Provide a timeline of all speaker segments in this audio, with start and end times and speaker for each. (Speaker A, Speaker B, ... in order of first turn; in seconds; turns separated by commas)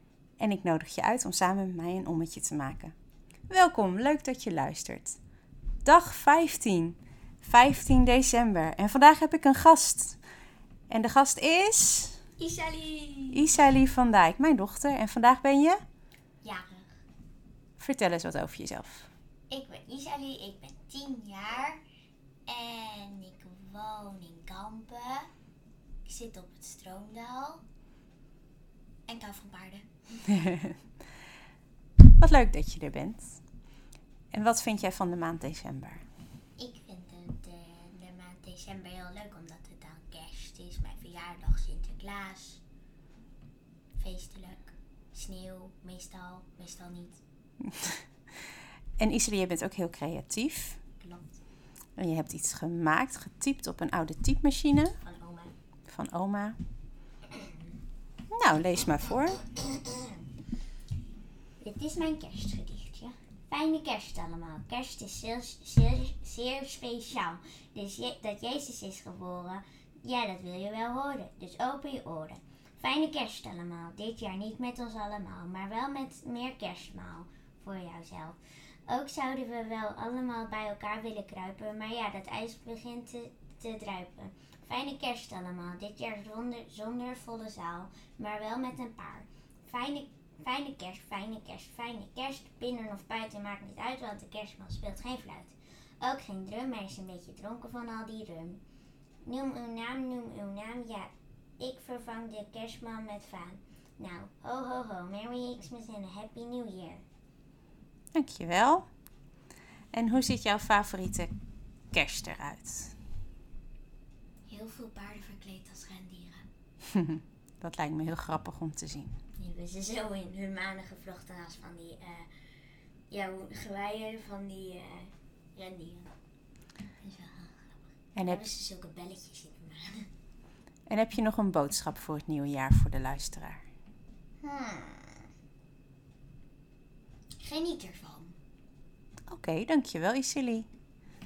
Speaker A: 0.4-2.9, Speaker A: 3.5-5.2, Speaker A: 5.8-10.2, Speaker A: 10.9-12.2, Speaker B: 12.4-13.5, Speaker A: 13.3-15.8, Speaker B: 16.4-16.9, Speaker A: 17.8-19.1, Speaker B: 19.5-21.8, Speaker B: 22.5-25.3, Speaker B: 26.1-27.6, Speaker B: 29.1-30.2, Speaker A: 30.4-30.7, Speaker A: 32.2-33.4, Speaker A: 34.3-36.0, Speaker B: 36.6-42.6, Speaker B: 44.0-47.2, Speaker A: 47.7-48.0, Speaker A: 49.0-50.8, Speaker B: 51.0-51.3, Speaker A: 52.0-55.0, Speaker B: 55.0-55.5, Speaker A: 55.9-56.6, Speaker A: 58.3-59.4, Speaker B: 61.6-98.6, Speaker B: 99.3-107.0, Speaker A: 108.1-108.9, Speaker A: 109.9-111.3, Speaker A: 111.9-112.9, Speaker B: 114.5-116.5, Speaker A: 117.0-119.1, Speaker B: 119.4-122.3, Speaker B: 123.1-126.1, Speaker B: 127.0-130.1, Speaker A: 128.2-128.5, Speaker A: 130.9-133.6, Speaker B: 134.4-135.3, Speaker B: 137.4-138.4, Speaker A: 139.3-140.7